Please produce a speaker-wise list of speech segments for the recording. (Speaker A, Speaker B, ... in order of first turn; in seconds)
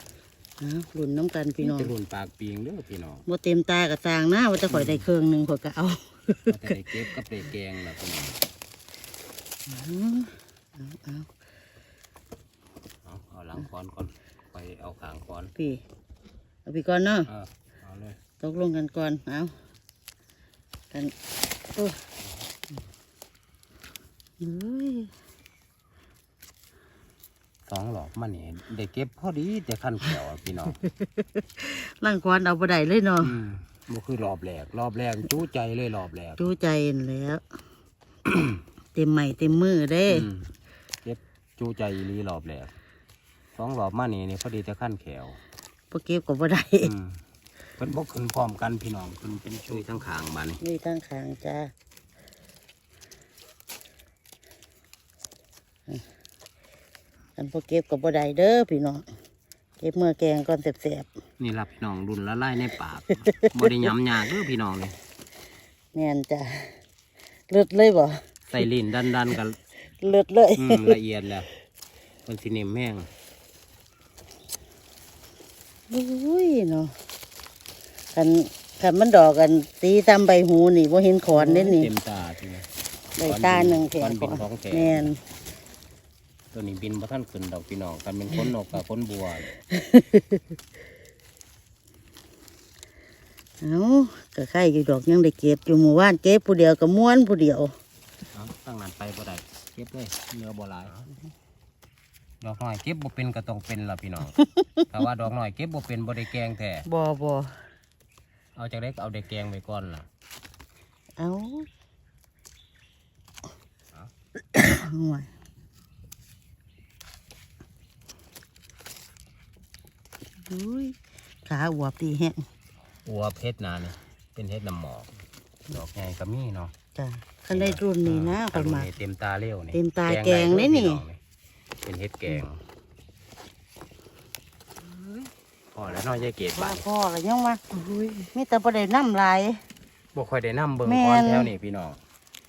Speaker A: 0.6-1.9, 3.3-6.8, 9.7-11.3, 15.6-15.8, 16.7-17.3, 18.4-19.6, 24.4-25.1, 30.8-33.4, 36.4-37.4, 39.0-40.3, 45.9-46.9, 50.6-51.7, 57.4-59.0, 59.8-61.1, 63.3-63.7, 65.9-66.8, 67.5-68.6, 70.0-71.0, 75.9-77.0, 78.1-81.9, 83.2-85.2, 89.7-90.4, 93.6-97.7, 104.3-104.9, 106.9-107.6, 111.2-111.7, 114.5-115.3, 120.5-122.5, 127.0-128.9, 129.7-131.0, 136.6-137.8, 138.3-139.6, 140.8-141.5
Speaker B: 1.6-3.3, 4.7-5.0, 6.5-8.4, 13.1-15.5, 17.3-18.2, 22.2-22.5, 27.7-30.8, 33.2-36.5, 38.3-38.6, 40.1-40.5, 41.0-42.7, 43.5-45.4, 46.8-47.2, 47.8-50.6, 61.4-65.0, 68.5-69.6, 70.6-71.5, 72.3-73.1, 81.3-82.7, 83.2-85.1, 86.5-89.5, 98.3-101.0, 102.4-104.4, 104.9-106.9, 108.6-110.1, 123.1-125.1, 125.7-126.7, 127.5-131.2, 131.8-132.6, 134.8-136.8, 137.8-138.2, 140.2-142.0